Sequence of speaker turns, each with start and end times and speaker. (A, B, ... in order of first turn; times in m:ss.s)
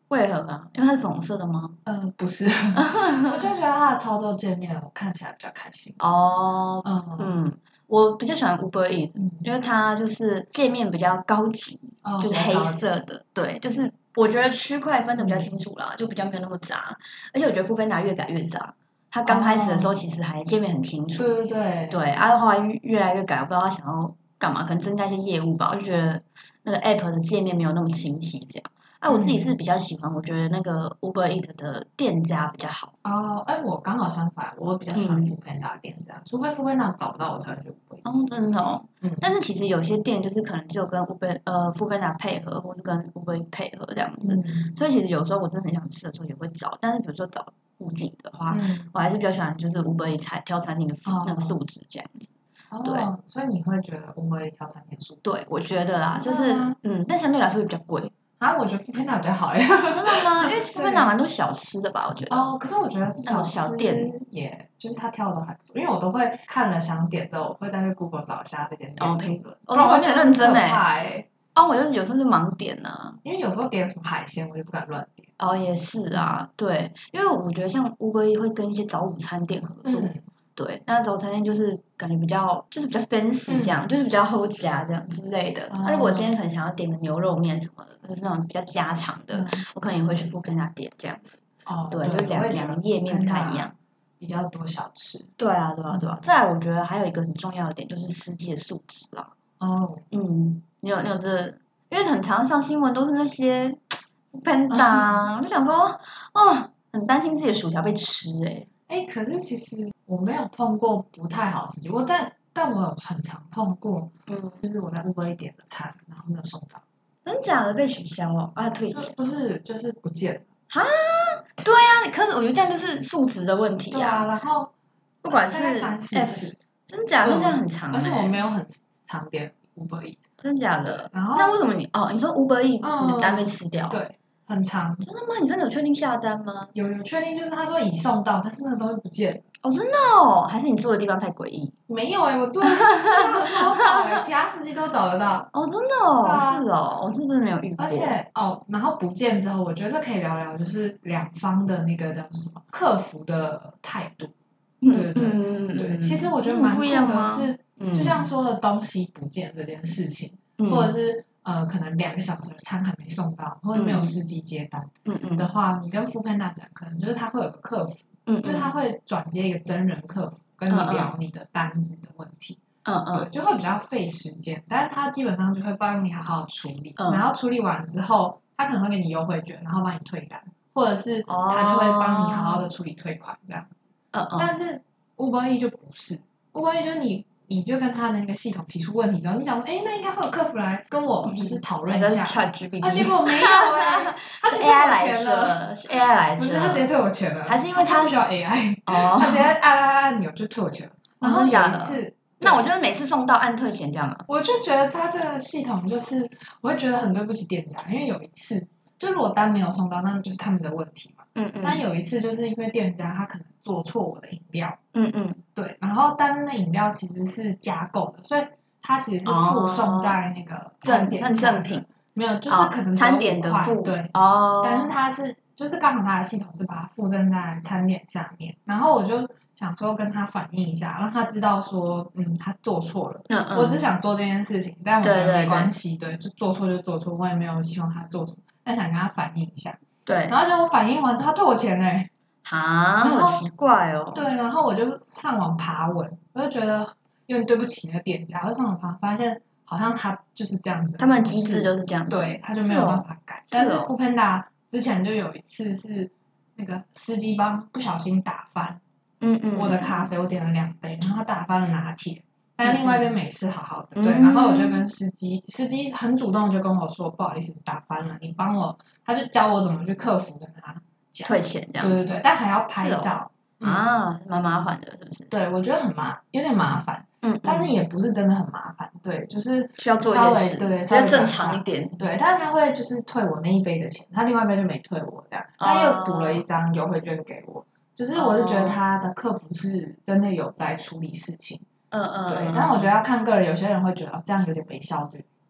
0:00.1-0:01.8 A
0:01.9-0:06.0 B
0:02.8-0:03.4 A
0:06.0-0:21.3 A
0:06.8-0:07.3 B
0:09.2-0:09.5 B
0:12.0-0:12.9 B
0:15.2-0:15.5 B
0:19.2-0:20.0 B
0:21.2-0:22.0 B
0:21.9-0:32.9 A
0:29.1-0:29.5 B
0:33.0-0:38.0 B
0:34.9-0:35.3 A
0:38.0-0:53.1 A
0:39.0-0:39.3 B
0:44.2-0:44.8 B
0:48.5-0:48.9 B
0:51.1-0:51.6 B
0:52.7-0:55.2 B
0:55.2-0:58.1 A
0:56.1-0:56.8 B
0:58.4-1:01.1 B
0:59.9-1:02.5 A
1:02.3-1:11.3 B
1:03.2-1:04.1 A
1:09.0-1:10.8 A
1:11.5-1:13.2 A
1:13.2-1:15.3 B
1:15.4-1:33.7 A
1:16.1-1:16.4 B
1:19.8-1:20.2 B
1:23.5-1:23.8 B
1:25.7-1:26.3 B
1:29.3-1:29.6 B
1:31.7-1:35.3 B
1:35.4-1:39.3 A
1:39.6-1:40.0 B
1:40.1-1:48.7 A
1:44.7-1:45.3 B
1:48.9-1:56.8 B
1:54.3-1:54.6 A
1:57.2-1:59.2 A
1:58.9-2:00.5 B
2:00.7-2:04.3 A
2:03.9-2:04.7 B
2:05.2-2:08.4 A
2:05.3-2:06.6 B
2:07.2-2:10.2 B
2:10.4-2:14.0 A
2:11.1-2:11.6 B
2:12.8-2:15.0 B
2:15.0-2:16.7 A
2:16.7-2:19.4 B
2:19.6-2:21.8 A
2:21.9-2:25.5 B
2:22.6-2:24.2 A
2:25.5-2:28.2 A
2:26.2-2:26.7 B
2:27.8-2:34.3 B
2:34.8-2:38.3 A
2:34.9-2:52.6 B
2:40.6-2:40.9 A
2:43.7-2:44.2 A
2:45.1-2:45.5 A
2:48.3-2:48.7 A
2:50.7-2:51.1 A
2:52.8-2:53.3 A
2:53.1-3:03.8 B
2:57.0-2:57.2 A
3:01.3-3:02.7 A
3:04.1-3:04.5 A
3:04.4-3:15.6 B
3:11.3-3:16.9 A
3:16.4-3:22.7 B
3:17.5-3:18.2 A
3:18.9-3:19.5 A
3:21.2-3:24.3 A
3:24.3-3:34.8 B
3:31.4-3:31.8 A
3:34.9-3:35.4 A
3:35.6-3:59.8 B
3:39.2-3:40.2 A
3:40.8-3:41.9 A
3:42.5-3:44.9 A
3:53.3-3:53.8 A
3:55.0-3:55.7 A
4:00.1-4:00.4 A
4:00.3-4:02.1 B
4:02.4-4:04.2 A
4:03.0-4:03.4 B
4:04.1-4:18.8 B
4:11.0-4:13.9 A
4:19.2-4:20.1 A
4:19.5-4:33.8 B
4:22.6-4:23.1 A
4:24.0-4:24.9 A
4:31.3-4:32.0 A
4:32.8-4:35.3 A
4:35.3-4:51.6 B
4:37.2-4:37.7 A
4:39.8-4:42.0 A
4:45.6-4:46.4 A
4:48.1-4:48.8 A
4:51.9-4:52.9 A
4:52.3-4:55.3 B